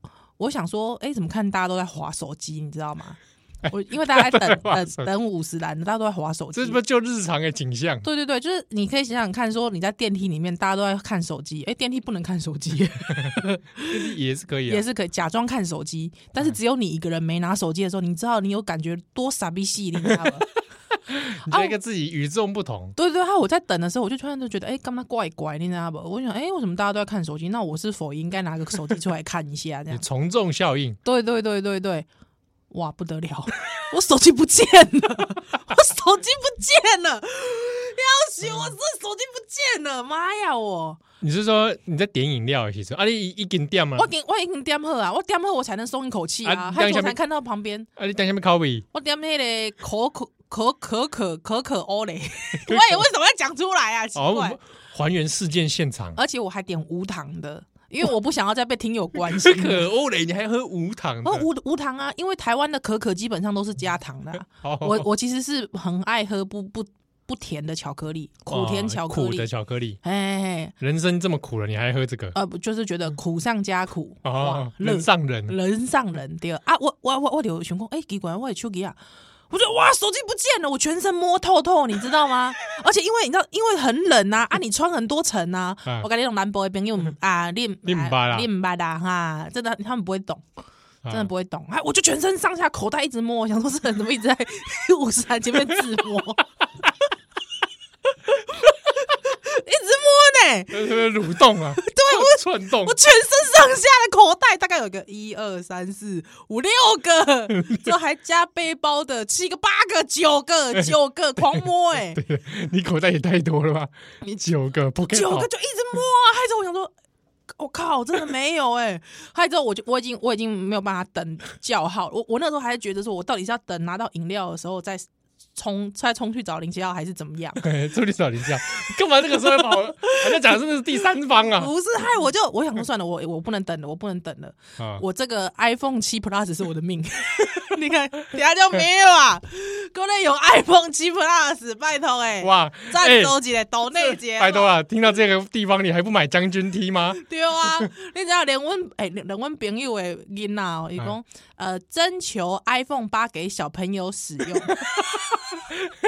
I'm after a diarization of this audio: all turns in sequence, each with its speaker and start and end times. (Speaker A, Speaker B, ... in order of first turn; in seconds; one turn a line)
Speaker A: 0.4-6.8
Speaker B: 3.6-5.1
Speaker B: 6.5-8.1
Speaker A: 8.0-14.0
Speaker B: 13.2-14.8
Speaker A: 14.7-20.5
Speaker B: 20.0-20.3
Speaker B: 21.1-22.9
Speaker A: 21.4-21.7
Speaker A: 22.9-30.0
Speaker B: 29.9-31.0
Speaker A: 31.0-32.1
Speaker A: 32.7-41.0
Speaker B: 41.2-44.1
Speaker A: 43.9-47.9
Speaker B: 46.4-47.2
Speaker B: 48.0-48.9
Speaker A: 48.9-54.6
Speaker B: 52.6-53.0
Speaker B: 54.1-56.2
Speaker A: 56.1-59.9
Speaker B: 59.2-61.5
Speaker A: 61.2-69.5
Speaker B: 64.5-65.1
Speaker B: 68.5-70.0
Speaker A: 70.0-70.7
Speaker B: 70.8-72.3
Speaker A: 72.3-79.0
Speaker B: 74.2-75.5
Speaker A: 79.5-90.4
Speaker B: 87.8-88.5
Speaker B: 91.0-91.3
Speaker A: 91.1-96.6
Speaker A: 98.1-112.2
Speaker B: 100.7-103.0
Speaker B: 107.5-107.9
Speaker B: 110.7-115.5
Speaker A: 115.1-116.9
Speaker A: 117.5-127.6
Speaker B: 127.6-131.7
Speaker A: 129.5-130.6
Speaker A: 131.5-144.7
Speaker B: 134.8-135.0
Speaker B: 142.4-143.4
Speaker B: 143.9-147.2
Speaker A: 147.2-155.5